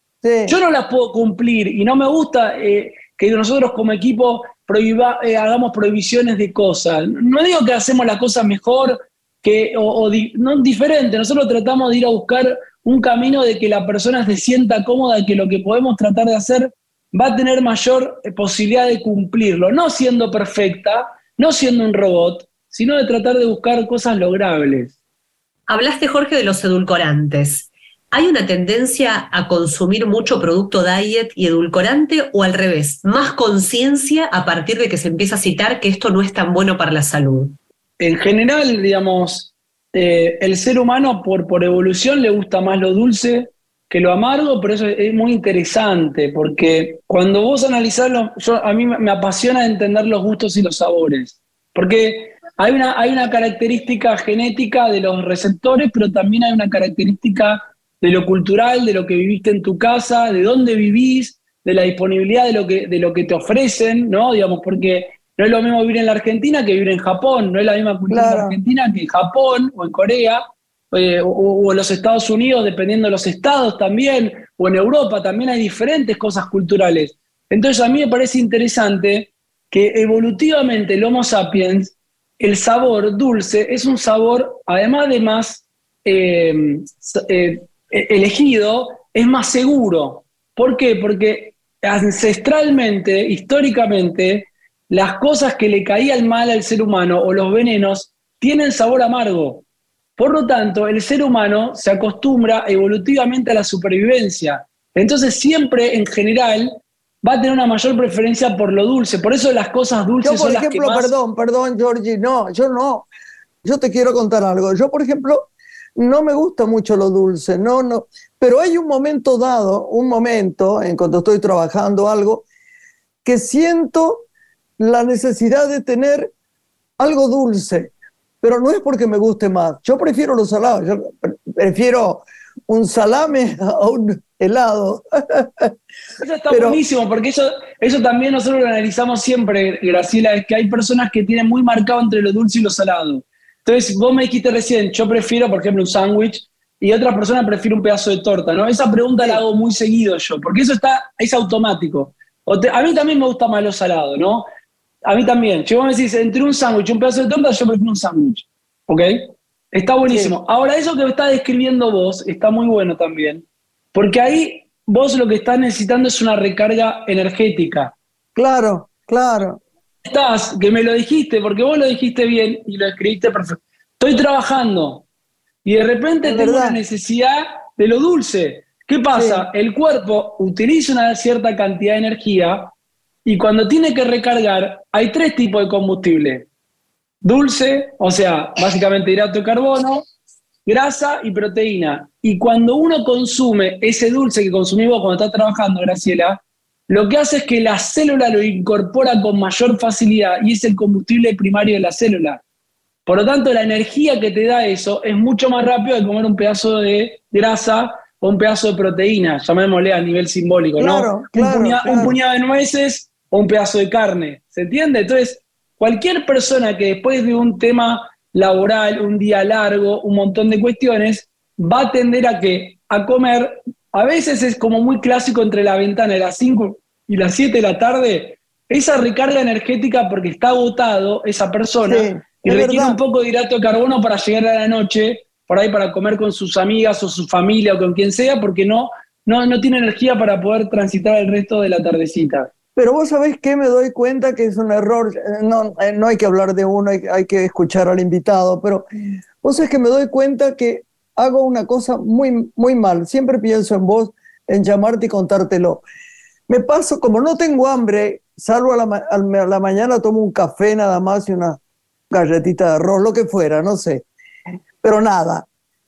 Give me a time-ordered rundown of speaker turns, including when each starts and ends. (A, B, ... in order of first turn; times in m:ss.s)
0:00.2-0:00.6 A
0:00.5-0:24.9 B
0:25.7-0:37.6 C
0:38.0-1:39.6 B
1:08.1-1:08.6 A
1:40.2-1:51.1 B
1:50.2-1:53.1 A
1:53.6-2:02.4 A
2:03.2-2:04.2 A
2:04.8-2:06.3 A
2:07.0-2:07.9 A
2:08.4-2:15.7 A
2:16.2-2:34.4 B
2:16.5-2:16.8 A
2:35.0-2:47.9 B
2:40.0-2:40.3 A
2:48.4-2:49.6 A
2:50.0-2:55.0 B
2:55.6-3:02.7 B
2:56.2-2:56.8 A
2:59.1-2:59.4 A
3:03.2-3:06.4 B
3:07.2-3:10.0 B
3:10.6-3:22.4 B
3:23.0-4:02.5 B
3:30.8-3:32.2 A
3:51.8-3:53.0 A
4:02.8-4:08.9 A
4:09.4-4:15.8 A
4:16.5-4:21.6 A
4:22.1-4:24.0 A
4:24.8-4:25.4 A